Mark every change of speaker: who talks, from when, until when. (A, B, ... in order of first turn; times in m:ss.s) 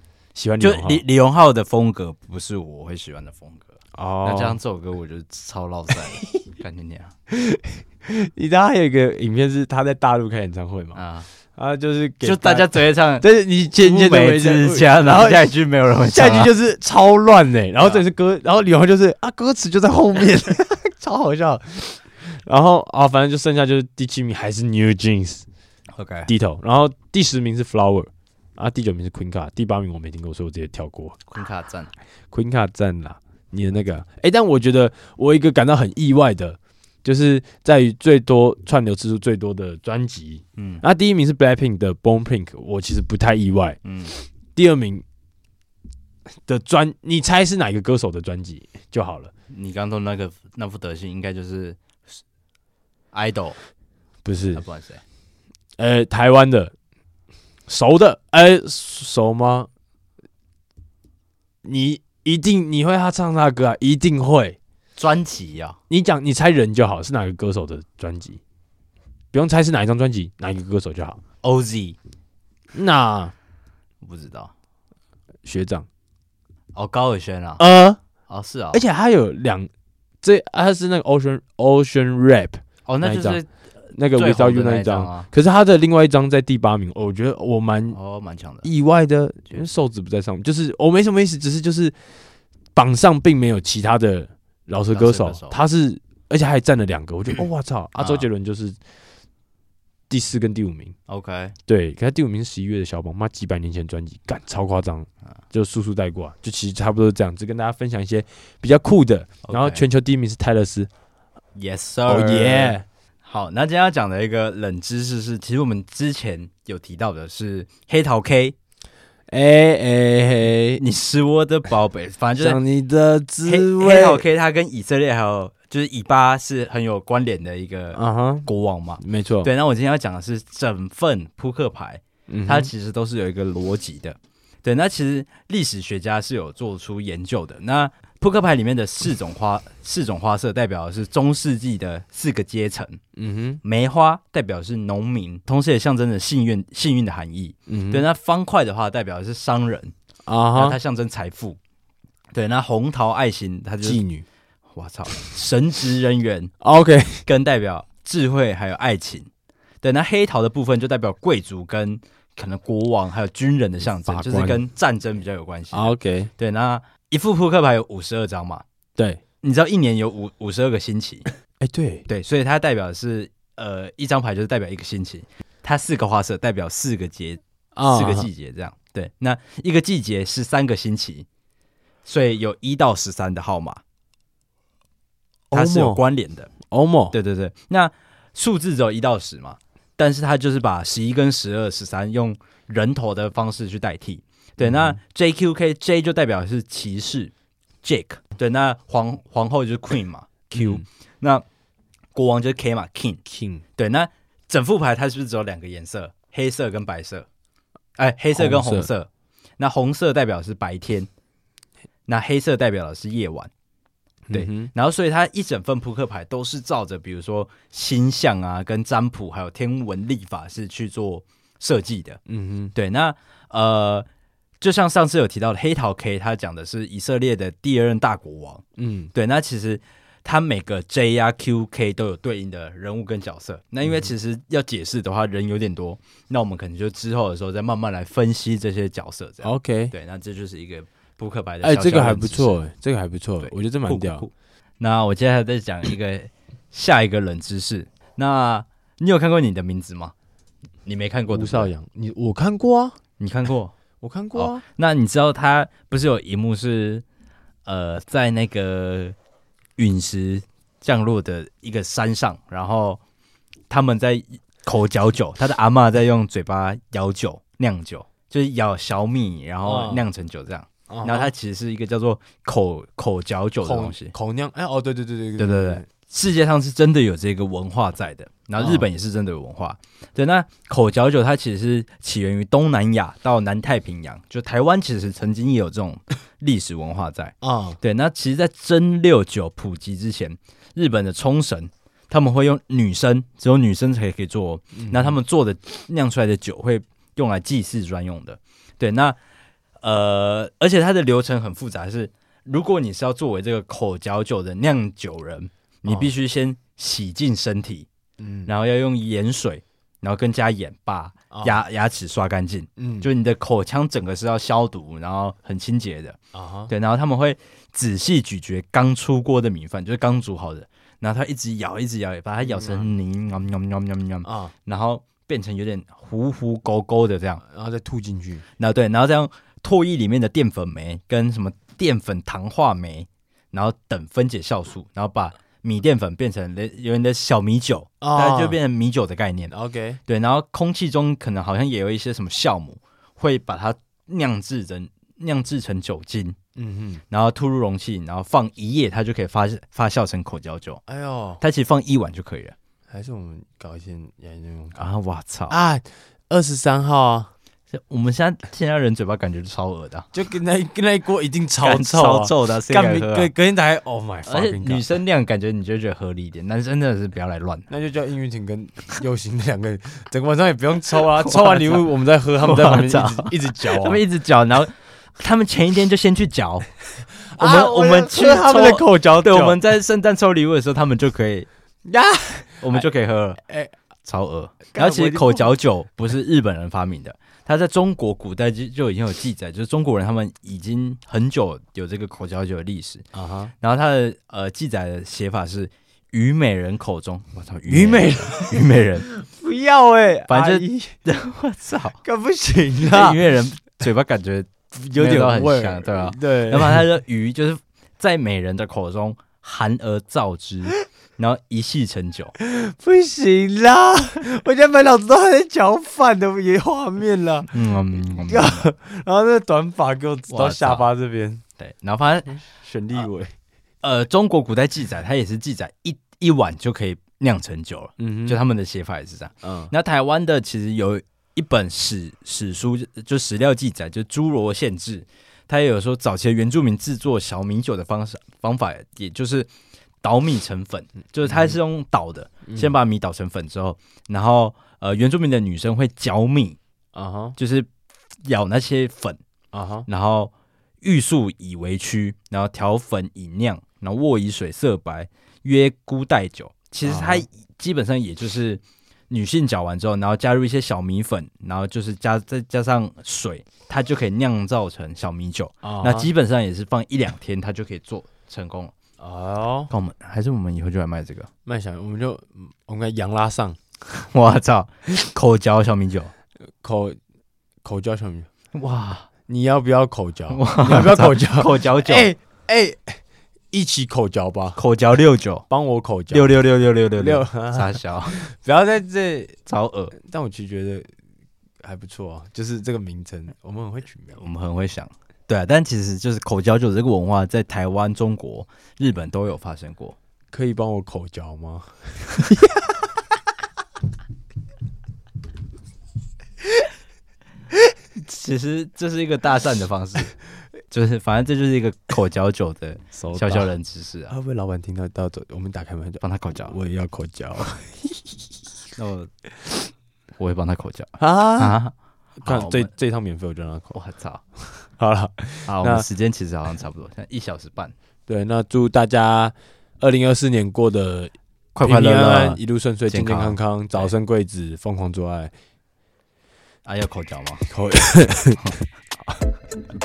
0:00.4-0:01.0 A
0:00.6-0:07.1 B
0:04.0-0:04.6 A
0:07.3-0:11.0 A
0:11.0-0:11.3 B
0:11.6-0:15.5 A
0:12.2-0:16.5 B
0:16.1-0:25.4 A
0:25.9-0:26.3 B
0:26.3-0:31.2 A
0:31.3-0:31.9 B
0:32.3-0:43.8 A
0:40.6-0:40.8 B
0:43.8-0:44.1 B
0:44.5-0:45.0 A
0:46.4-0:49.3 A
0:49.5-0:51.8 B
0:53.1-0:53.6 B
0:54.2-0:54.6 A
0:54.6-0:55.0 B
0:55.8-0:56.7 A
0:57.7-0:59.7 A
1:01.6-1:04.6 A
1:05.0-1:05.8 B
1:05.9-1:08.4 A
1:09.3-1:11.2 A
1:11.4-1:12.0 B
1:12.7-1:13.3 A
1:14.0-1:14.5 B
1:15.4-1:15.9 A
1:16.8-1:17.6 B
1:17.6-1:18.0 A
1:18.3-1:18.8 B
1:18.7-1:19.7 A
1:20.2-1:23.4 A
1:22.9-1:23.5 B
1:23.9-1:28.0 A
1:24.1-1:25.3 B
1:27.9-1:28.7 B
1:28.6-1:32.0 A
1:32.8-1:38.8 A
1:34.9-1:35.6 B
1:38.0-1:38.3 B
1:40.1-1:41.0 A
1:41.1-1:41.5 B
1:41.7-1:50.9 A
1:49.4-1:49.8 B
1:51.6-1:58.6 B
1:52.1-1:52.8 A
1:59.3-2:00.8 A
2:00.8-2:02.6 B
2:02.4-2:04.2 A
2:03.4-2:23.0 B
2:07.9-2:08.5 A
2:09.0-2:09.5 A
2:12.3-2:12.7 A
2:23.2-2:23.6 A
2:23.6-2:29.9 B
2:27.7-2:28.1 A
2:30.3-2:30.8 A
2:30.6-2:31.6 B
2:32.4-2:34.0 B
2:33.8-2:34.3 A
2:34.7-2:36.5 B
2:36.6-2:37.2 A
2:37.2-2:39.3 B
2:39.8-2:48.6 B
2:44.1-2:44.6 A
2:45.7-2:46.3 A
2:49.4-2:51.2 B
2:51.6-2:52.1 A
2:52.1-3:01.3 B
2:57.8-2:58.3 A
3:02.0-3:03.8 B
3:05.5-3:06.0 A
3:05.5-3:06.5 B
3:06.7-3:07.2 A
3:07.1-3:17.3 B
3:14.6-3:15.0 A
3:17.8-3:21.4 B
3:20.5-3:20.8 A
3:22.2-3:23.2 B
3:23.3-3:23.6 A
3:23.8-3:27.3 B
3:28.0-3:31.1 B
3:28.4-3:28.9 A
3:32.1-3:33.5 B
3:34.3-3:34.7 A
3:34.3-3:42.2 B
3:42.3-3:42.7 A
3:42.8-3:44.1 B
3:44.6-3:48.6 B
3:48.8-3:49.1 A
3:49.1-4:02.6 B
3:59.4-4:00.0 A
4:01.6-4:04.3 A
4:03.4-4:10.1 B
4:10.8-4:11.7 B
4:11.3-4:13.0 A
4:13.2-4:13.7 B
4:14.0-4:14.6 A
4:14.4-4:17.0 B
4:17.7-4:19.2 B
4:19.8-4:23.0 B
4:23.7-4:34.1 B
4:29.6-4:30.1 A
4:30.9-4:31.3 A
4:33.6-4:35.9 A
4:35.4-4:59.2 B
4:38.6-4:38.9 A
4:47.4-4:47.8 A
4:54.7-4:55.2 A
4:59.8-5:07.9 B
5:08.2-5:08.5 A
5:08.5-5:16.2 B
5:11.3-5:11.6 A
5:12.8-5:13.1 A
5:16.3-5:16.7 A
5:16.7-5:27.4 B
5:22.4-5:22.9 A
5:24.2-5:24.5 A
5:27.4-5:28.4 A
5:28.6-5:39.5 B
5:38.0-5:38.6 A
5:39.5-5:40.0 A
5:40.1-5:46.4 B
5:46.6-5:47.0 A
5:47.1-5:50.8 B
5:50.9-5:51.4 A
5:51.4-5:52.6 B
5:52.9-5:54.8 A
5:54.8-5:55.6 B
5:55.5-5:57.3 A
5:57.7-6:00.1 B
6:00.1-6:04.9 A
6:01.6-6:03.3 B
6:04.3-6:07.7 B
6:07.7-6:14.0 A
6:11.0-6:11.9 B
6:12.4-6:16.7 B
6:17.2-6:19.6 A
6:17.4-6:21.5 B
6:21.9-6:22.9 A
6:22.6-6:23.4 B
6:23.4-6:23.7 A
6:24.0-6:33.0 B
6:24.7-6:25.6 A
6:33.1-6:33.5 A
6:33.6-6:39.1 B
6:37.7-6:41.0 A
6:40.3-6:42.0 B
6:42.0-6:43.2 A
6:42.8-6:52.4 B
6:44.7-6:46.9 A
6:52.4-7:01.4 A
6:57.5-6:58.7 B
7:00.3-7:00.9 B
7:01.6-7:02.3 B
7:02.6-7:03.3 A
7:03.8-7:19.5 B
7:08.0-7:08.4 A
7:09.4-7:09.7 A
7:20.0-7:26.6 B
7:21.3-7:21.6 A
7:22.5-7:22.8 A
7:27.0-7:27.4 A
7:27.4-7:27.7 B
7:28.2-7:29.2 B
7:29.5-7:29.9 A
7:29.9-7:48.7 B
7:36.8-7:37.2 A
7:45.6-7:46.1 A
7:49.0-7:49.7 A
7:49.7-7:51.3 B
7:51.5-7:53.6 A
7:53.9-7:56.1 B
7:56.6-7:57.0 A
7:57.6-7:58.3 A
7:58.5-7:59.1 B
7:59.3-8:03.0 A
8:00.3-8:02.1 B
8:03.5-8:04.6 A
8:04.6-8:05.5 B
8:05.5-8:06.4 A
8:06.1-8:08.2 B
8:07.0-8:09.4 A
8:09.5-8:09.9 B
8:10.0-8:10.9 A
8:11.6-8:14.2 A
8:14.2-8:20.0 B
8:20.3-8:22.7 A
8:28.0-8:30.2 B
8:30.7-8:34.1 B
8:33.0-8:33.5 A
8:34.1-8:38.2 A
8:36.0-8:36.6 B
8:38.8-8:39.1 B
8:40.2-8:41.7 B
8:41.0-8:41.6 A
8:42.2-8:43.8 A
8:42.2-8:42.7 B
8:43.7-8:44.2 B
8:44.5-8:45.9 A
8:45.5-8:47.7 B
8:48.1-8:55.3 A
8:51.6-8:53.9 B
8:56.6-8:57.4 B
8:57.5-8:59.2 A